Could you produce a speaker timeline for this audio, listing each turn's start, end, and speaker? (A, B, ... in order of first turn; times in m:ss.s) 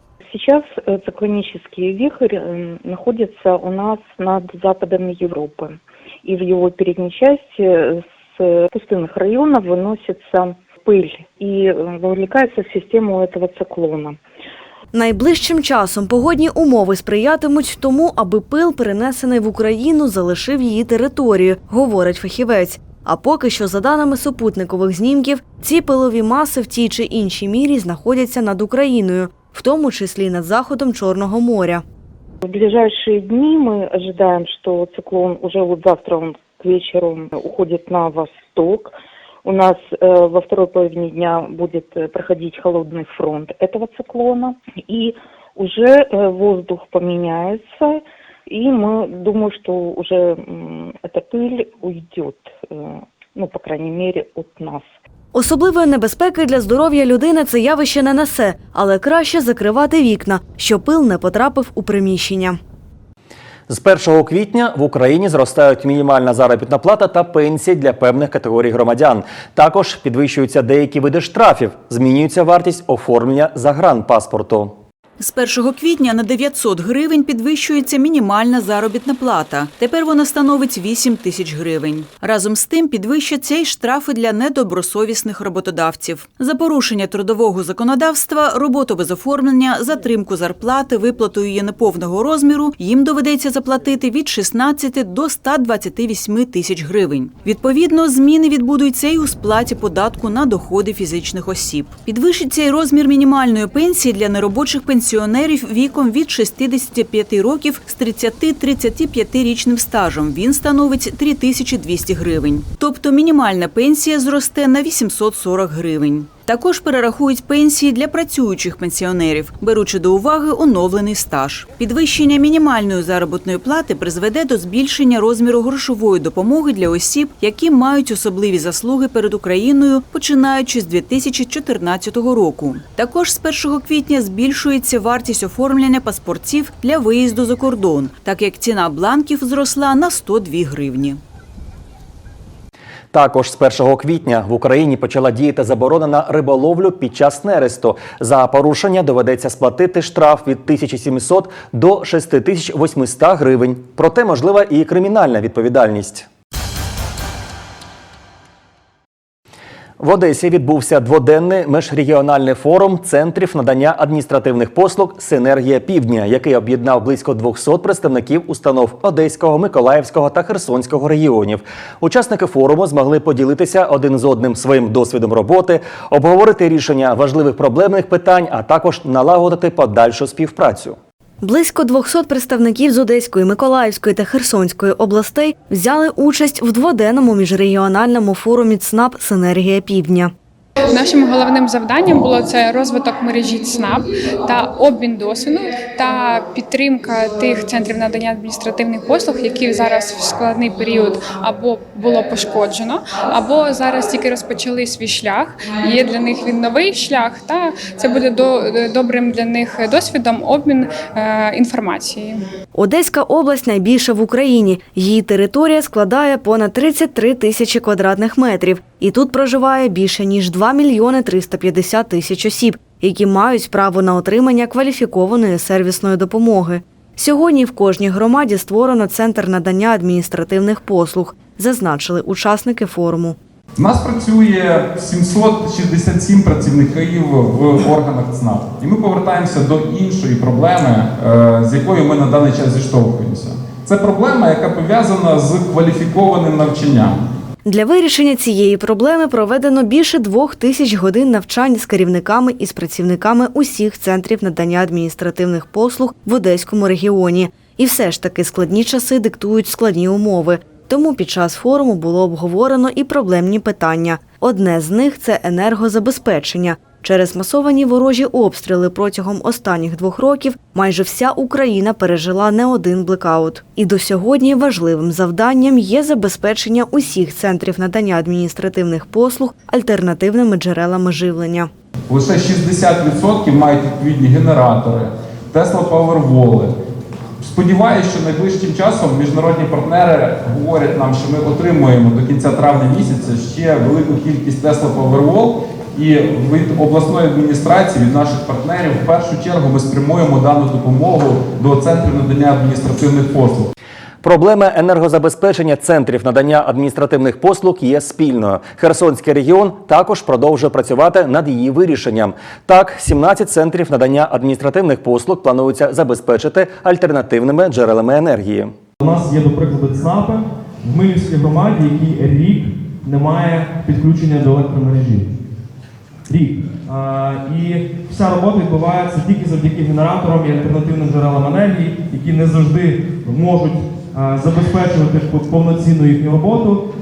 0:00.2-0:14.2 A
0:14.9-0:31.8 B
0:32.4-0:38.9 A
0:39.4-0:54.9 A
0:55.3-1:02.6 B
1:03.7-1:14.8 C
1:15.2-2:21.2 D
2:23.1-2:36.3 C
2:40.0-3:01.0 C
3:01.4-3:10.3 B
3:10.8-3:32.4 E
3:32.7-3:53.4 B
3:53.8-4:07.2 F
4:07.7-4:41.7 B
4:42.1-4:46.8 F
4:47.4-5:03.7 F
5:04.2-5:18.7 C
5:19.0-5:25.3 G
5:26.3-5:36.8 G